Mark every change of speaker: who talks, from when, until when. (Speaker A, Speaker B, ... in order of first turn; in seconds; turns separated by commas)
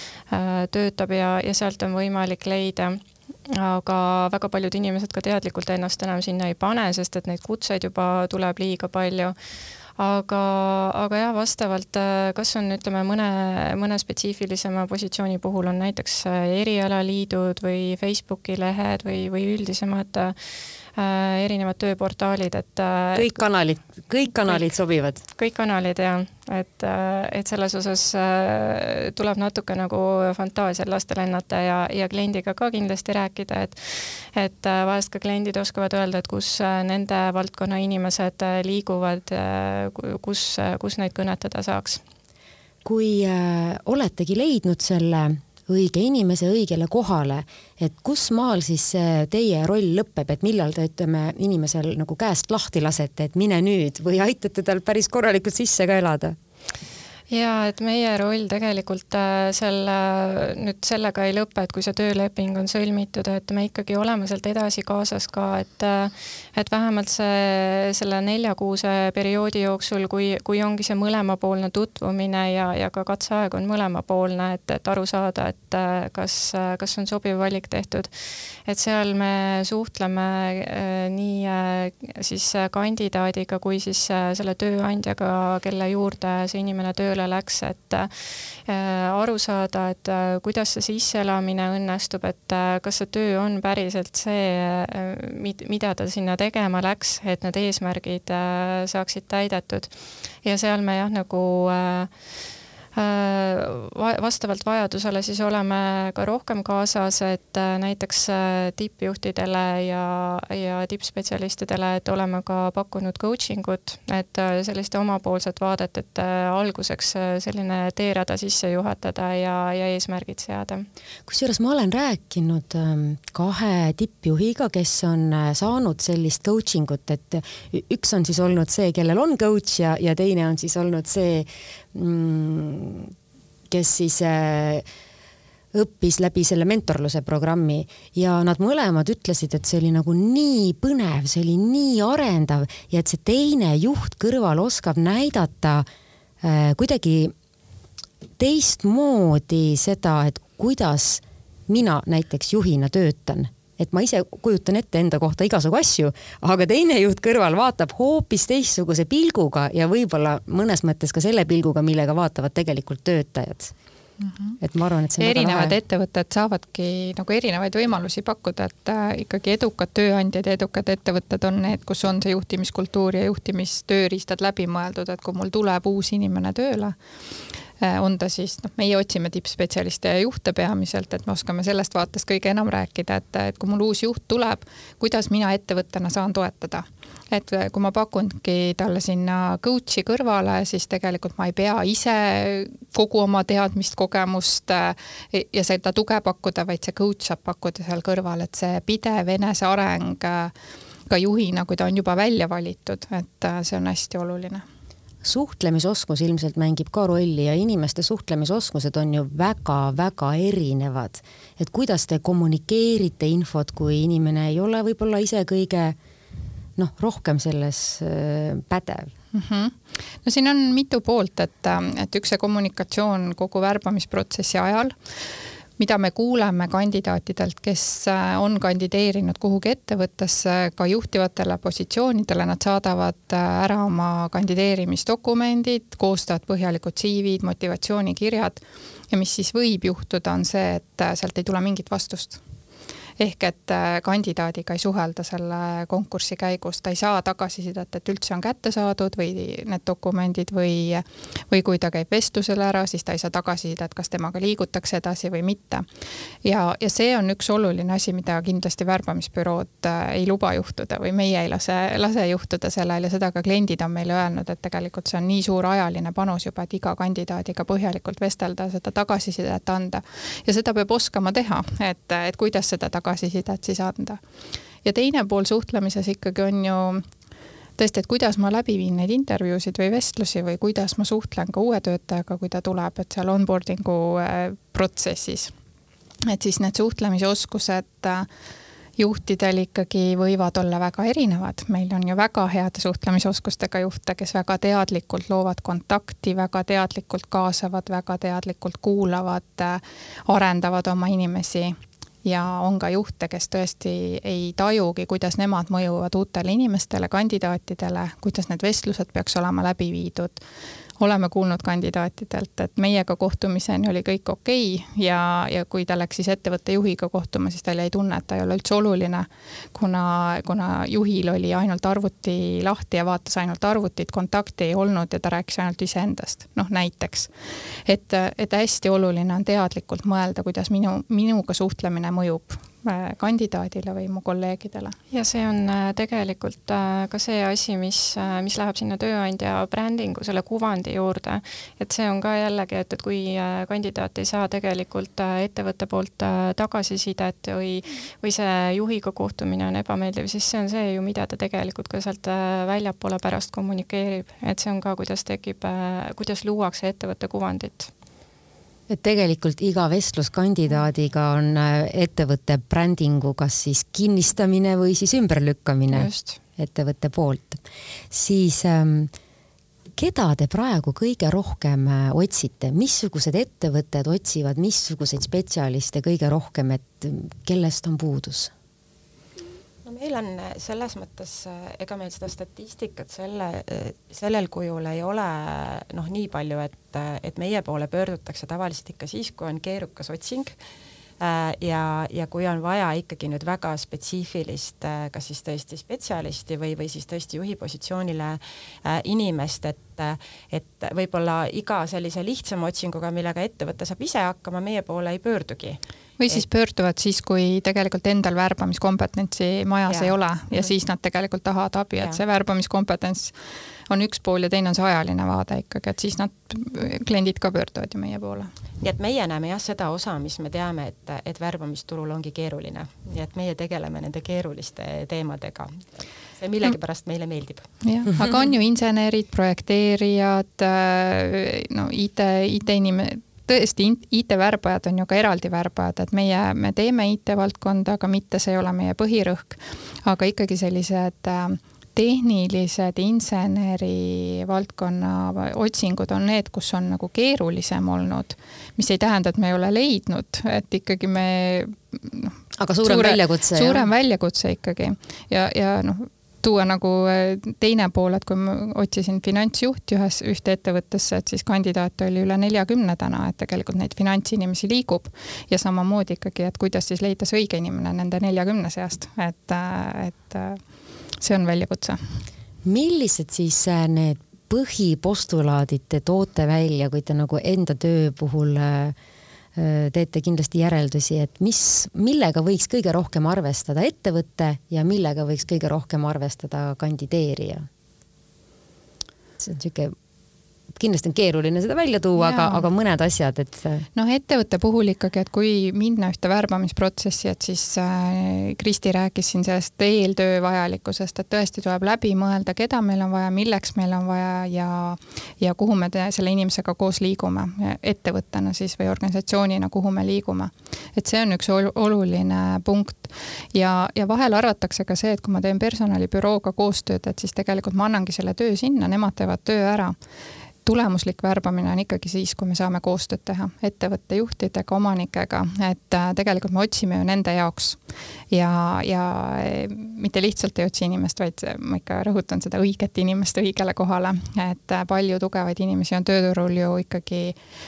Speaker A: 0.3-9.3, Speaker A: 10.0-20.3, Speaker A: 20.9-23.3, Speaker B: 23.1-25.2, Speaker A: 25.3-33.8, Speaker A: 34.3-42.0, Speaker B: 42.8-56.4, Speaker A: 57.3-78.1, Speaker A: 78.7-88.1, Speaker A: 88.7-102.1, Speaker A: 103.0-120.8, Speaker B: 121.3-133.1, Speaker B: 133.7-134.8, Speaker B: 135.7-145.8, Speaker B: 146.4-147.3, Speaker B: 148.4-163.7, Speaker C: 164.2-164.6, Speaker B: 164.6-165.7, Speaker C: 165.2-176.9, Speaker C: 177.8-200.5, Speaker C: 201.1-204.6, Speaker B: 205.2-216.0, Speaker B: 216.8-219.1, Speaker C: 219.3-224.9, Speaker C: 225.8-242.4, Speaker C: 243.2-255.8, Speaker C: 256.4-274.2, Speaker C: 274.8-277.0, Speaker C: 277.8-285.5, Speaker C: 286.3-288.3, Speaker C: 289.0-310.4, Speaker C: 311.0-327.3, Speaker C: 327.9-334.9, Speaker A: 335.1-357.9, Speaker B: 358.9-369.1, Speaker A: 365.9-366.4, Speaker B: 369.9-378.5, Speaker D: 379.8-390.5, Speaker D: 391.2-406.4, Speaker C: 406.2-413.3, Speaker D: 409.9-410.7, Speaker C: 413.9-418.5, Speaker D: 418.8-425.8, Speaker D: 426.4-427.7, Speaker C: 427.8-470.6, Speaker B: 452.6-453.9, Speaker C: 471.2-472.0, Speaker B: 472.6-478.9, Speaker B: 479.6-487.7, Speaker B: 489.4-489.9, Speaker B: 490.7-493.9, Speaker C: 492.2-492.6, Speaker C: 493.9-519.9, Speaker C: 520.6-527.8, Speaker C: 528.3-537.4